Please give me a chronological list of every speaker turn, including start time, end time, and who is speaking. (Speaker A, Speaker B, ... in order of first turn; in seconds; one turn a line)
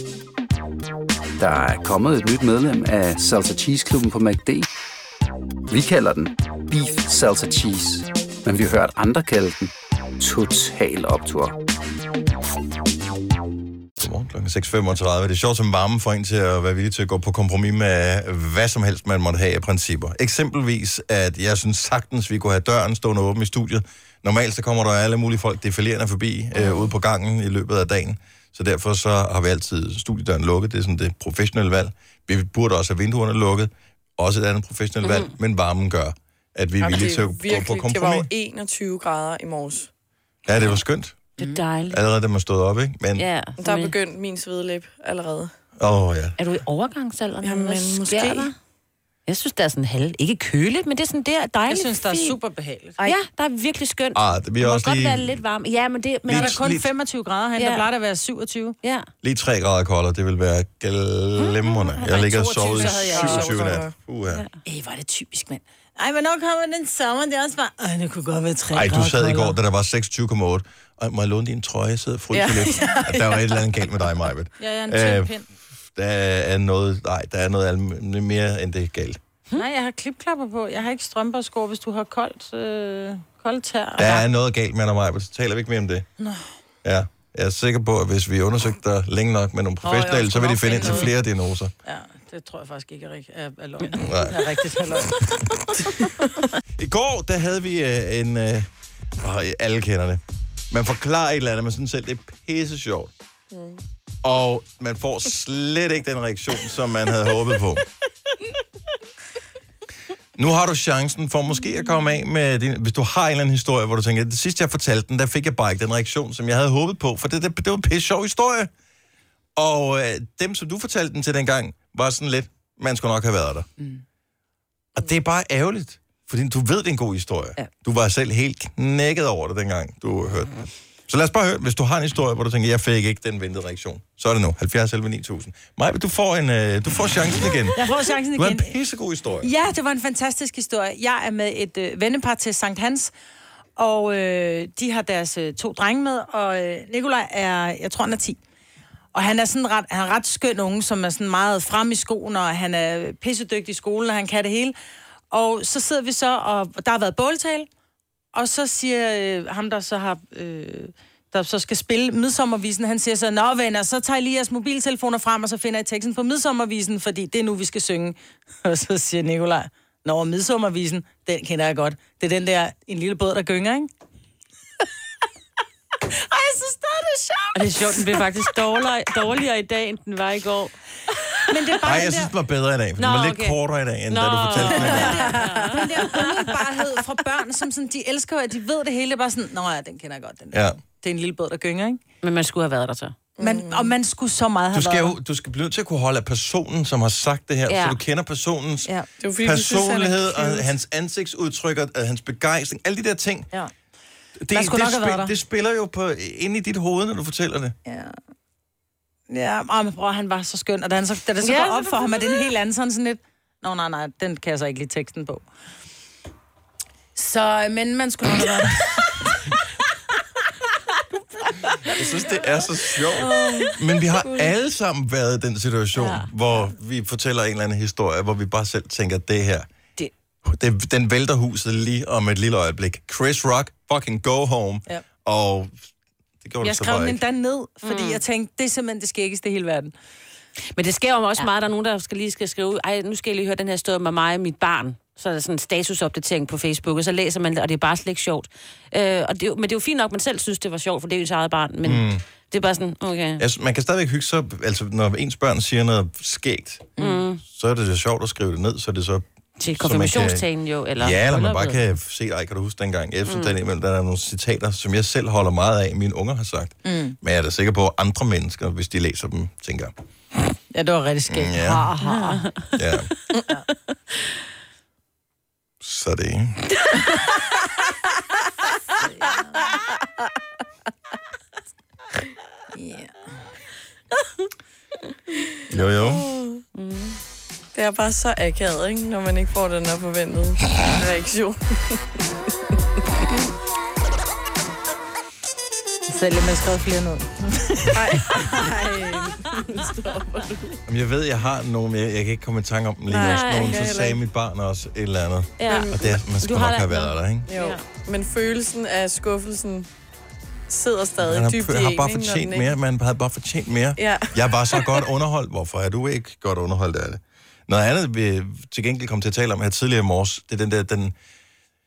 Speaker A: 1.4-4.7
Speaker A: 5.7-11.6
Speaker B: 14.0-38.3
Speaker C: 35.0-35.3
Speaker D: 36.8-39.9
Speaker B: 40.5-41.3
Speaker C: 41.4-42.0
Speaker B: 41.9-43.3
Speaker C: 43.2-44.0
Speaker D: 43.6-45.5
Speaker B: 45.8-46.4
Speaker C: 46.4-48.5
Speaker D: 47.4-48.5
Speaker C: 49.3-52.4
Speaker E: 51.7-53.0
Speaker C: 53.0-56.7
Speaker B: 54.1-55.4
Speaker B: 56.2-56.9
Speaker E: 56.3-58.8
Speaker C: 57.6-57.9
Speaker C: 58.8-59.1
Speaker B: 59.2-64.5
Speaker E: 62.0-63.7
Speaker D: 63.0-63.9
Speaker E: 64.7-69.6
Speaker B: 68.7-75.3
Speaker D: 72.3-73.2
Speaker E: 74.6-75.5
Speaker B: 76.0-79.2
Speaker E: 79.5-84.3
Speaker B: 84.0-86.1
Speaker B: 86.8-91.7
Speaker E: 89.8-91.1
Speaker E: 91.8-95.8
Speaker B: 94.0-94.4
Speaker B: 96.8-98.7
Speaker B: 99.2-103.1
Speaker D: 103.5-103.8
Speaker B: 104.2-107.8
Speaker B: 110.4-118.7
Speaker B: 119.6-123.7
Speaker B: 125.0-130.6
Speaker B: 131.1-139.5
Speaker E: 137.8-138.7
Speaker E: 139.4-143.1
Speaker E: 143.8-148.4
Speaker E: 149.1-154.7
Speaker E: 155.3-157.7
Speaker E: 158.3-173.9
Speaker E: 176.2-178.2
Speaker C: 177.5-181.6
Speaker E: 181.5-182.3
Speaker B: 181.8-185.3
Speaker C: 183.0-183.6
Speaker C: 184.1-186.7
Speaker E: 184.6-192.0
Speaker B: 190.5-190.8
Speaker C: 192.2-193.2
Speaker D: 193.4-193.9
Speaker E: 193.4-195.2
Speaker B: 194.7-203.5
Speaker C: 197.7-198.0
Speaker D: 199.2-200.7
Speaker B: 204.4-207.8
Speaker E: 204.5-205.3
Speaker E: 207.9-208.2
Speaker E: 209.3-215.4
Speaker C: 211.4-212.2
Speaker E: 217.2-219.2
Speaker B: 221.9-229.7
Speaker D: 223.2-224.5
Speaker B: 230.4-235.8
Speaker B: 236.4-237.2
Speaker E: 236.6-239.9
Speaker C: 237.8-238.2
Speaker C: 240.8-253.4
Speaker B: 251.8-252.2
Speaker B: 253.4-256.9
Speaker E: 257.0-257.2
Speaker C: 257.0-257.4
Speaker B: 257.4-259.2
Speaker C: 259.6-261.8
Speaker B: 259.8-260.4
Speaker B: 261.0-269.9
Speaker C: 263.3-263.5
Speaker E: 266.9-267.2
Speaker E: 270.7-272.5
Speaker B: 271.3-271.9
Speaker C: 272.0-272.7
Speaker B: 272.8-273.1
Speaker B: 275.8-276.6
Speaker E: 279.0-279.7
Speaker E: 282.7-283.2
Speaker B: 285.7-286.3
Speaker D: 285.9-286.6
Speaker C: 286.8-287.2
Speaker D: 287.7-292.2
Speaker E: 296.1-298.0
Speaker D: 297.9-300.8
Speaker B: 300.9-307.5
Speaker D: 303.1-304.2
Speaker C: 303.1-303.8
Speaker C: 305.6-307.8
Speaker D: 307.5-309.9
Speaker D: 310.7-312.7
Speaker B: 311.2-321.1
Speaker D: 314.0-315.0